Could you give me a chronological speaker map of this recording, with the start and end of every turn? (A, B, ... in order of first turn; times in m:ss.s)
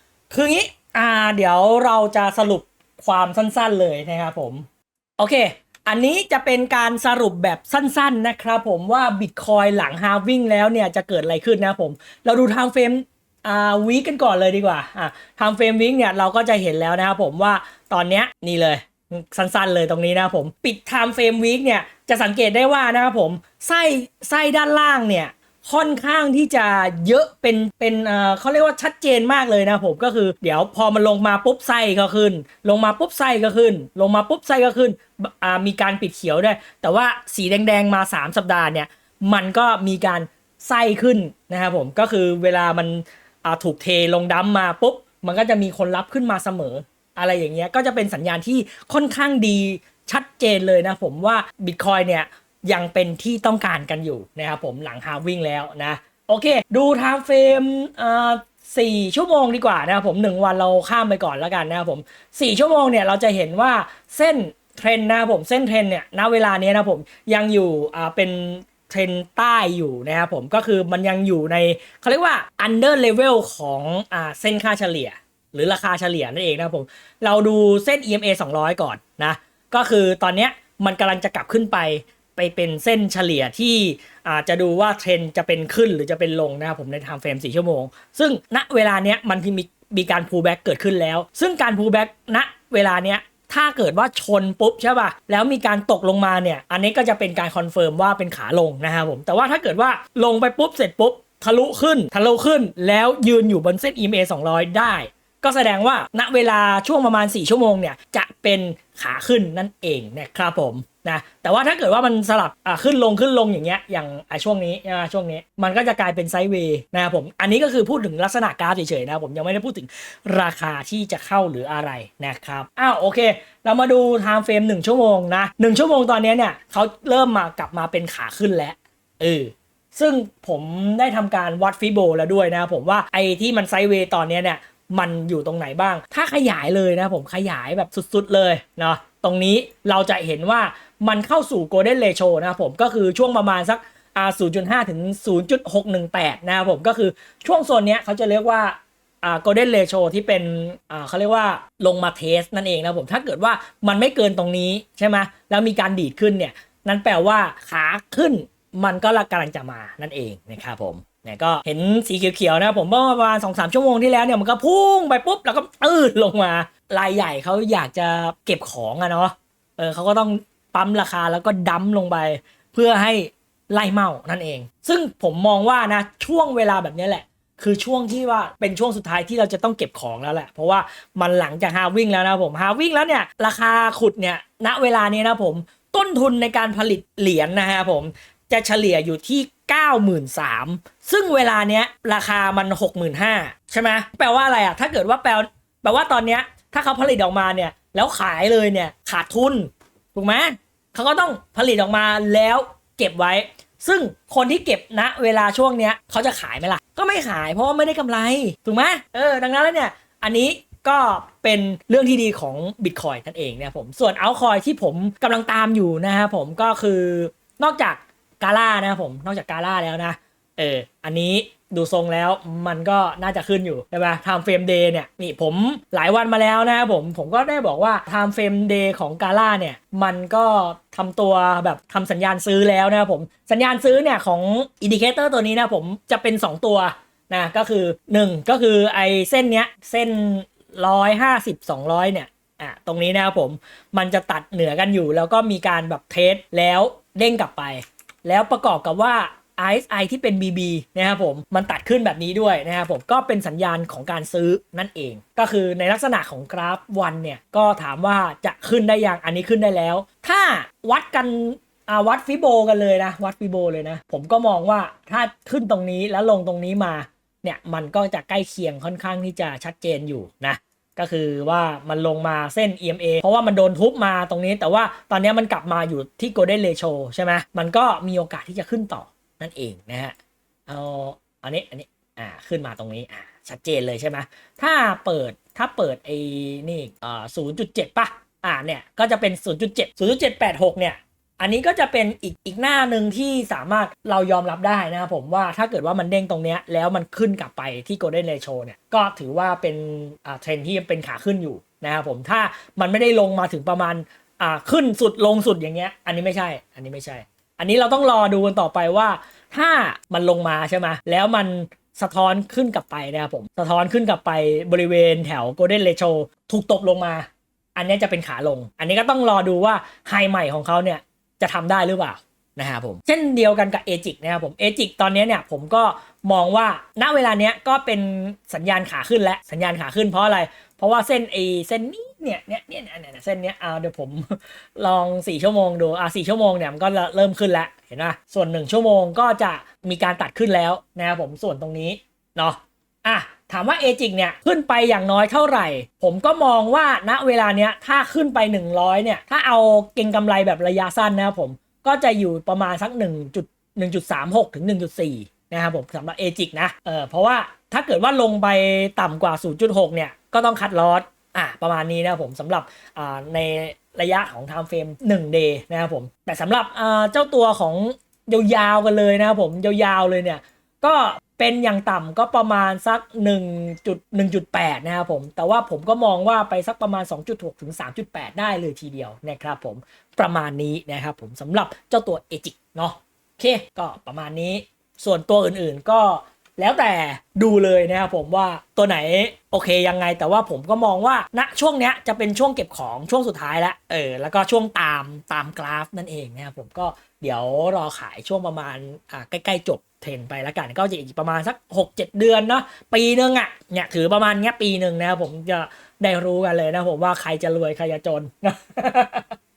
0:00.3-0:04.6 A
0:05.2-4:40.1 A
4:40.7-6:49.4 A